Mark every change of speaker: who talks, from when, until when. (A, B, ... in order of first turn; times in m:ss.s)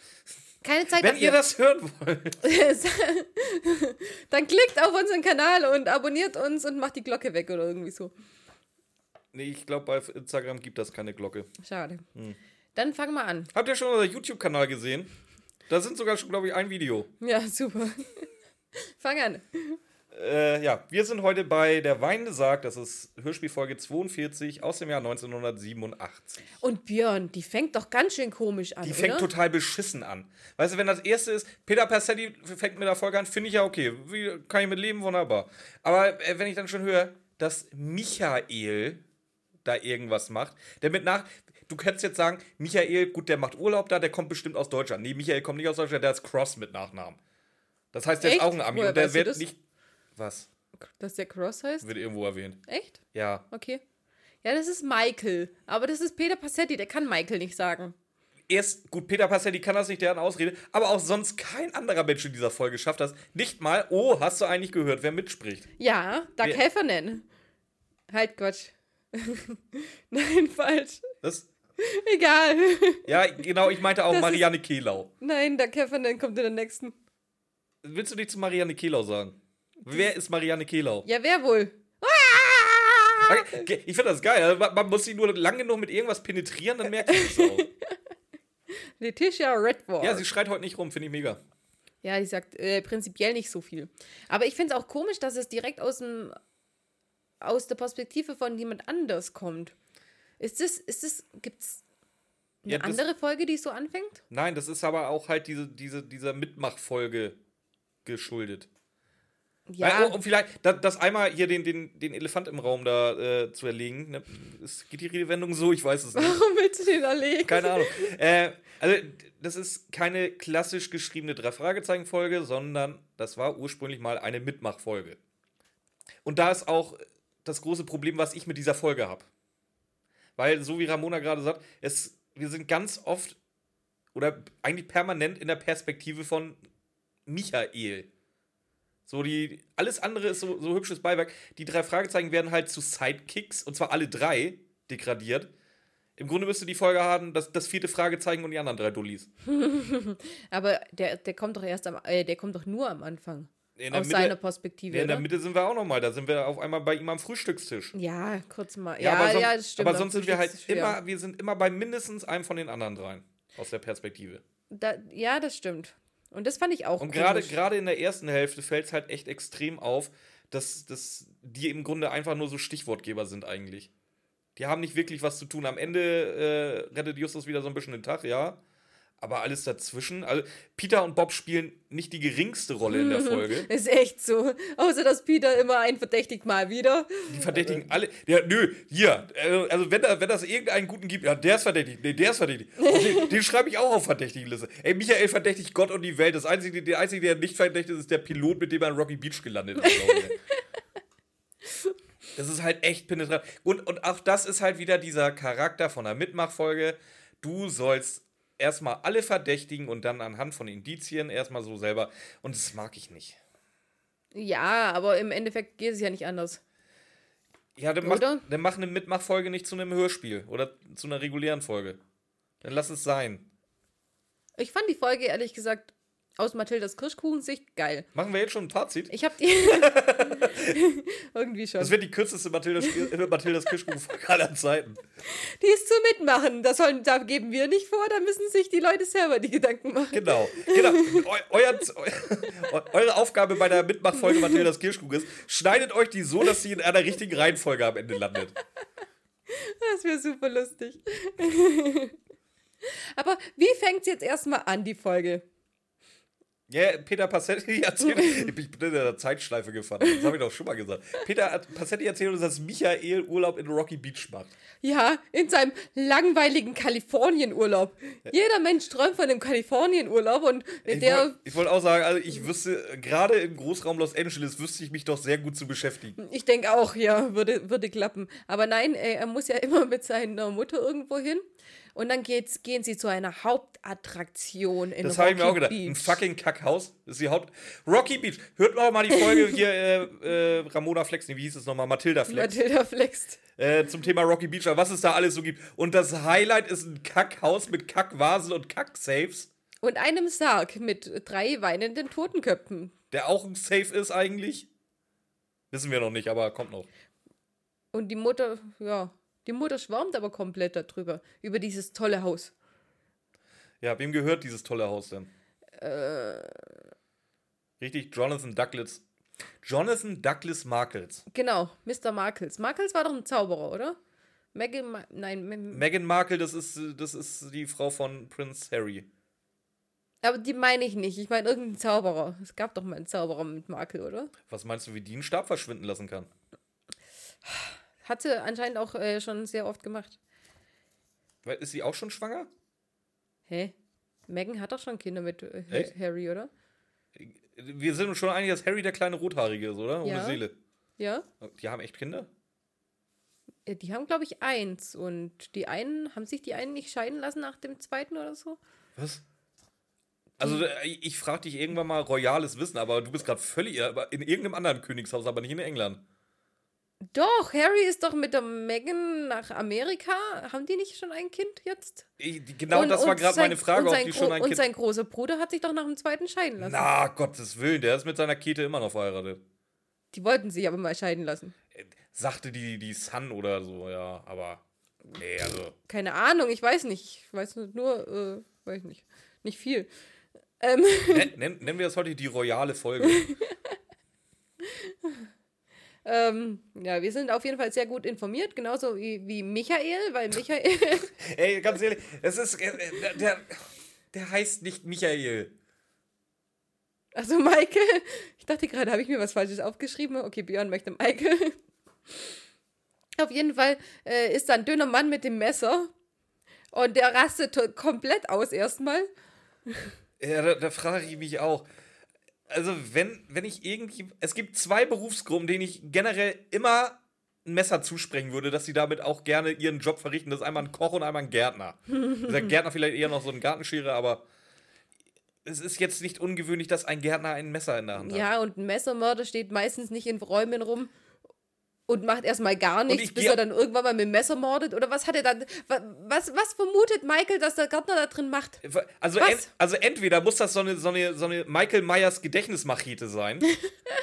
0:00.6-0:01.4 A
0:01.0-0:02.4 B
0:02.4-0:08.1 A
0:09.3-0:11.5 B
0:11.6-0:12.0 A
0:12.8-0:13.5 A
0:13.5-0:15.1 B
0:15.7-0:17.1 B
0:17.2-0:19.8 A
0:20.1-0:26.4 B
0:26.6-0:29.3 A
0:28.8-0:39.0 B
0:39.6-0:47.2 B
0:47.9-0:49.6 B
0:48.2-0:49.4 A
0:50.2-0:50.5 B
0:50.9-0:51.9 A
0:51.8-0:52.6 B
0:52.7-0:53.8 A
0:53.1-0:53.4 B
0:54.4-0:58.0 A
0:58.5-1:05.7 B
1:05.8-1:07.3 A
1:08.1-1:11.1 A
1:11.2-1:11.5 B
1:11.8-1:13.1 A
1:13.1-1:15.1 B
1:14.1-1:14.4 A
1:15.2-1:17.0 A
1:17.8-1:21.0 B
1:21.0-1:23.6 A
1:23.2-1:27.7 B
1:27.0-1:27.7 A
1:29.0-1:30.2 A
1:30.0-1:31.4 B
1:32.0-1:36.4 A
1:37.4-1:39.8 A
1:40.4-1:41.8 A
1:42.6-1:44.2 A
1:42.7-1:43.0 B
1:44.3-1:47.4 B
1:48.0-1:48.7 B
1:49.7-1:50.2 A
1:49.8-1:56.4 B
1:56.2-1:58.1 A
1:57.4-2:05.2 B
2:06.2-2:09.3 B
2:10.4-2:13.4 B
2:14.1-2:16.6 B
2:17.3-2:18.1 B
2:19.1-2:25.5 B
2:26.2-2:29.3 B
2:29.4-2:35.3 A
2:33.8-2:34.4 B
2:34.9-2:37.9 B
2:37.9-2:41.0 A
2:39.0-2:44.4 B
2:44.7-2:47.6 A
2:47.0-2:53.9 B
2:54.6-2:58.6 B
2:59.2-3:03.7 B
3:02.9-3:07.9 A
3:07.3-3:20.4 B
3:12.8-3:13.3 A
3:19.8-3:20.3 A
3:22.4-3:33.4 B
3:34.3-3:36.6 A
3:37.8-3:42.0 B
3:38.0-3:38.4 A
3:42.6-3:43.5 B
3:44.6-3:48.1 A
3:48.2-3:50.8 B
3:49.1-3:52.0 A
3:51.8-3:55.0 B
3:55.3-4:01.2 A
4:00.1-4:08.6 B
4:09.5-4:12.2 A
4:13.1-4:15.4 A
4:16.7-4:24.5 B
4:24.8-4:31.4 A
4:30.9-4:36.2 B
4:36.2-4:41.4 A
4:42.0-4:46.2 A
4:45.0-4:52.6 B
4:52.3-4:53.4 A
4:53.6-4:59.5 B
4:59.8-5:02.9 A
5:03.1-5:04.7 B
5:05.7-5:06.9 B
5:07.9-5:12.5 A
5:13.8-5:15.3 B
5:15.8-5:16.7 A
5:17.8-5:19.0 B
5:19.6-5:21.2 B
5:21.3-5:24.0 A
5:24.5-5:25.8 A
5:25.7-5:29.1 B
5:30.2-5:34.3 A
5:34.5-5:36.3 B
5:37.5-5:40.2 A
5:41.4-5:42.5 B
5:43.5-5:43.7 A
5:44.3-5:46.5 A
5:47.2-5:50.6 B
5:50.0-5:50.4 A
5:51.0-5:51.3 A
5:51.4-5:52.3 B
5:53.7-5:58.6 A
5:59.0-5:59.2 B
6:00.4-6:06.0 B
6:07.1-6:12.0 A
6:12.2-6:14.6 B
6:12.7-6:16.9 A
6:16.6-6:19.4 B
6:20.1-6:21.5 A
6:21.8-6:24.6 B
6:25.2-6:25.8 B
6:25.9-6:29.9 A
6:30.6-6:31.3 A
6:31.1-6:33.3 B
6:33.1-6:33.5 A
6:34.6-6:35.3 A
6:36.0-6:41.1 A
6:41.2-6:45.5 B
6:47.2-6:51.6 A
6:53.2-6:55.9 A
6:56.7-6:59.1 A
7:00.2-7:01.7 B
7:02.5-7:14.2 B
7:15.4-7:18.3 B
7:18.0-7:20.9 A
7:21.9-7:28.6 A
7:22.9-7:23.4 B
7:28.6-7:33.5 B
7:29.2-7:29.5 A